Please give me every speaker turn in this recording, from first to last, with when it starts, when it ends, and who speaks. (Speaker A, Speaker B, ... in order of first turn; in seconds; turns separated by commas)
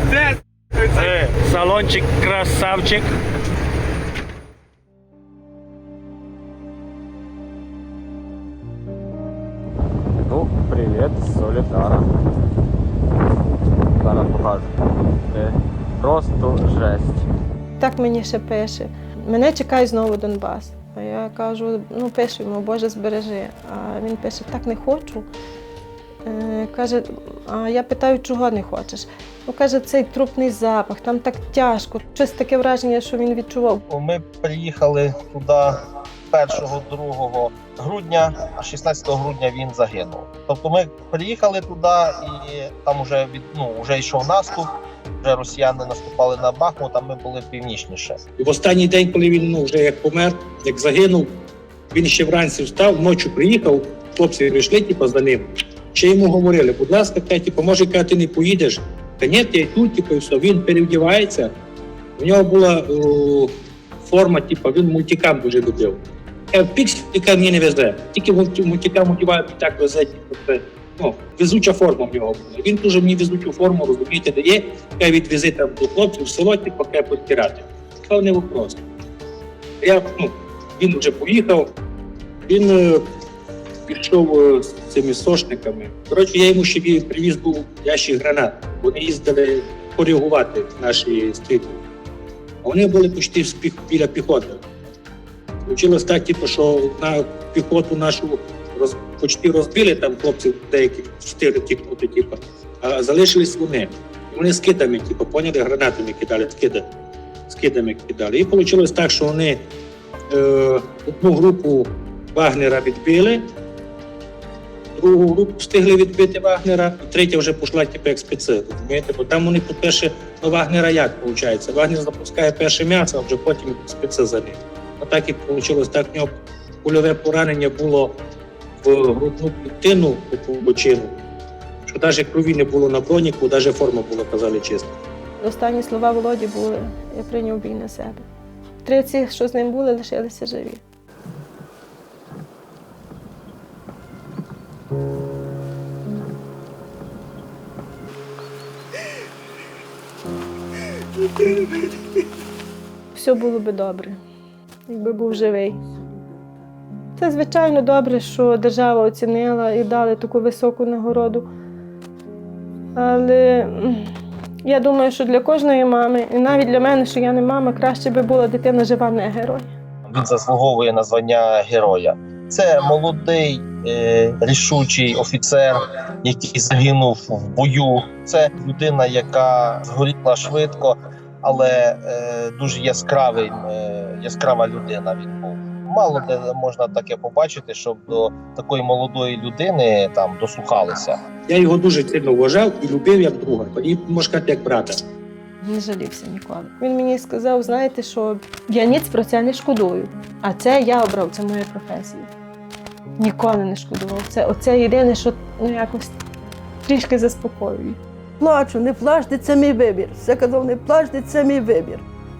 Speaker A: 0.9-3.0, Speaker B: 10.1-12.1, Speaker B: 14.0-17.3, Speaker C: 17.8-25.3, Speaker C: 26.2-33.8, Speaker D: 33.9-35.8, Speaker D: 36.3-44.6, Speaker D: 45.2-48.2, Speaker E: 48.4-51.3, Speaker E: 51.9-61.5, Speaker E: 62.2-66.0, Speaker E: 66.5-78.8, Speaker E: 79.8-81.7, Speaker E: 82.5-83.0, Speaker E: 83.9-91.8, Speaker E: 92.6-94.6, Speaker E: 95.7-106.8, Speaker E: 107.5-109.7, Speaker E: 110.3-113.5, Speaker E: 114.9-126.3, Speaker E: 126.8-128.2, Speaker E: 128.8-131.1, Speaker E: 131.8-134.9, Speaker C: 135.4-138.2, Speaker C: 138.8-140.8, Speaker C: 153.1-154.2, Speaker C: 154.9-155.8, Speaker C: 157.2-161.5, Speaker C: 162.9-164.1, Speaker C: 164.6-169.7, Speaker D: 170.1-191.2, Speaker E: 191.5-194.9, Speaker C: 195.6-202.3, Speaker C: 203.2-206.2, Speaker C: 206.8-208.0, Speaker F: 208.4-212.0